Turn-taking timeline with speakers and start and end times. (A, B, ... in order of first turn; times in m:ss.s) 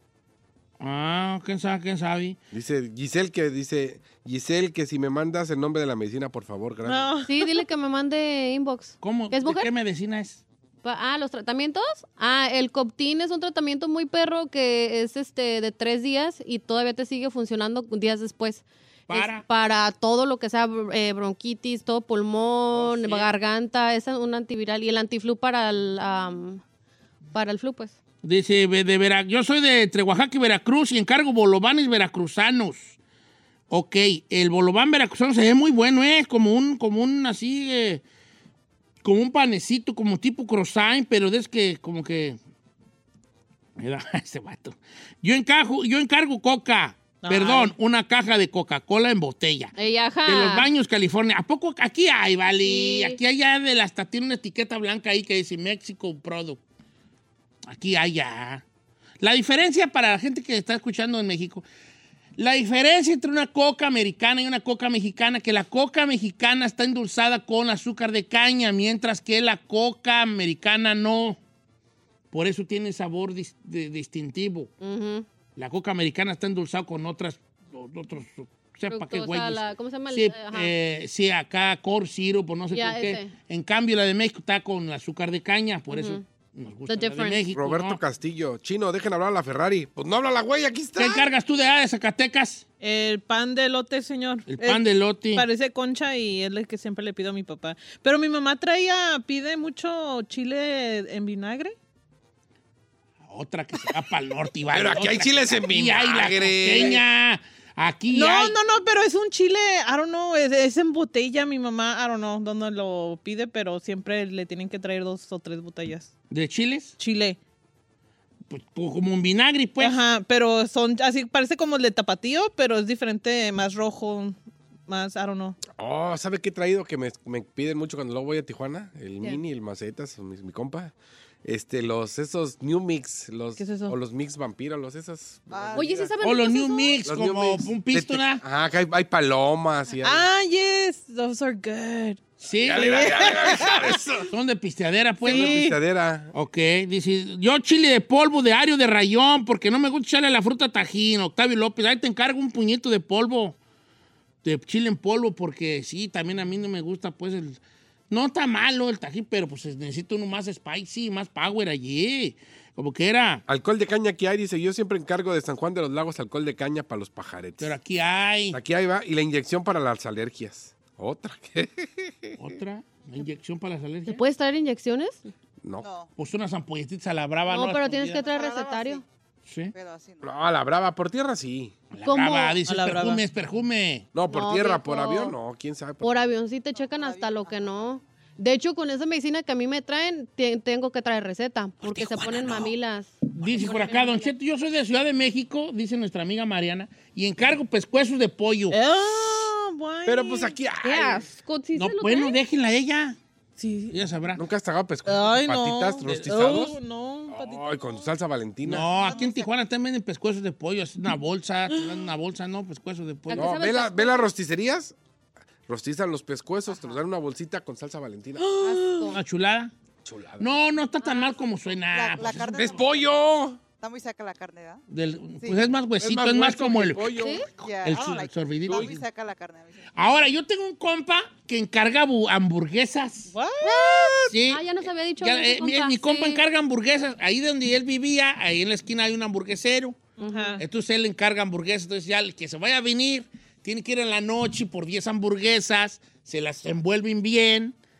0:00.8-0:02.4 A
0:02.5-0:07.1 B
0:06.8-0:07.4 C
0:07.2-0:09.7 D
0:09.0-0:10.4 A
0:10.8-0:26.6 D
0:19.1-0:19.4 A
0:22.7-0:23.3 A
0:27.3-0:28.0 D
0:28.2-0:33.0 A
0:33.7-0:38.0 A
0:39.0-0:42.4 A
0:43.8-0:49.7 A
0:47.2-0:47.7 C
0:49.8-0:50.7 D
0:50.2-0:56.6 A
0:52.6-0:53.2 D
0:57.7-0:58.6 A
0:59.2-1:01.6 A
1:02.4-1:11.4 A
1:12.3-1:14.7 A
1:14.8-1:15.3 D
1:15.6-1:28.0 A
1:18.9-1:20.7 D
1:22.7-1:23.3 D
1:25.9-1:26.2 D
1:26.9-1:27.4 D
1:27.5-1:31.2 B
1:31.0-1:32.6 A
1:32.8-1:41.8 C
1:34.5-1:35.5 A
1:43.3-1:48.6 A
1:44.7-1:47.0 B
1:48.1-1:56.1 C
1:56.3-1:56.9 A
1:57.0-1:57.4 C
1:58.5-2:00.0 A
1:59.8-2:05.6 C
2:05.6-2:10.9 B
2:11.4-2:16.1 B
2:13.6-2:14.0 C
2:15.5-2:16.1 E
2:15.7-2:17.0 D
2:16.2-2:18.4 A
2:17.0-2:20.2 B
2:20.0-2:22.2 C
2:22.4-2:23.1 A
2:22.6-2:24.3 B
2:22.8-2:24.0 C
2:24.2-2:25.6 A
2:25.2-2:25.8 C
2:25.2-2:26.3 B
2:26.3-2:33.6 A
2:34.4-2:43.4 A
2:43.5-2:47.7 B
2:47.6-2:48.6 A
2:48.5-2:52.4 B
2:52.4-2:54.2 A
2:54.0-2:55.3 D
2:55.6-2:55.9 B
2:55.8-2:56.1 E
2:56.2-2:58.0 A
2:57.5-2:59.0 D
2:58.2-2:59.0 E
2:59.5-2:59.7 A
2:59.7-3:00.3 E
3:00.2-3:01.7 B
3:01.9-3:04.1 A
3:02.0-3:02.6 D
3:02.6-3:03.2 C
3:04.1-3:06.1 B
3:04.3-3:05.4 D
3:06.0-3:14.3 D
3:06.7-3:08.0 E
3:11.8-3:12.7 A
3:13.3-3:18.8 A
3:18.7-3:20.6 C
3:20.0-3:21.3 B
3:20.8-3:22.4 D
3:21.7-3:23.2 A
3:23.6-3:24.0 C
3:23.9-3:24.4 A
3:24.4-3:28.9 B
3:25.0-3:28.0 C
3:26.0-3:26.4 A
3:28.6-3:33.5 A
3:29.0-3:29.4 E
3:31.7-3:32.1 C
3:33.3-3:34.3 D
3:33.3-3:34.9 B
3:35.7-3:38.5 B
3:36.7-3:37.0 E
3:38.4-3:39.1 C
3:38.6-3:39.2 D
3:39.0-3:39.7 A
3:40.0-3:40.5 B
3:40.4-3:42.8 A
3:41.9-3:43.1 E
3:42.5-3:43.6 B
3:43.8-3:44.8 E
3:44.9-3:47.2 A
3:45.4-3:45.7 E
3:46.0-3:47.4 B
3:47.2-3:47.4 D
3:47.6-3:49.9 E
3:47.8-3:49.0 A
3:49.9-3:53.3 A
3:53.3-3:54.3 C
3:53.6-3:56.4 D
3:54.3-3:54.7 A
3:55.2-4:00.0 A
4:00.2-4:00.6 C
4:00.2-4:00.6 D
4:00.6-4:07.7 A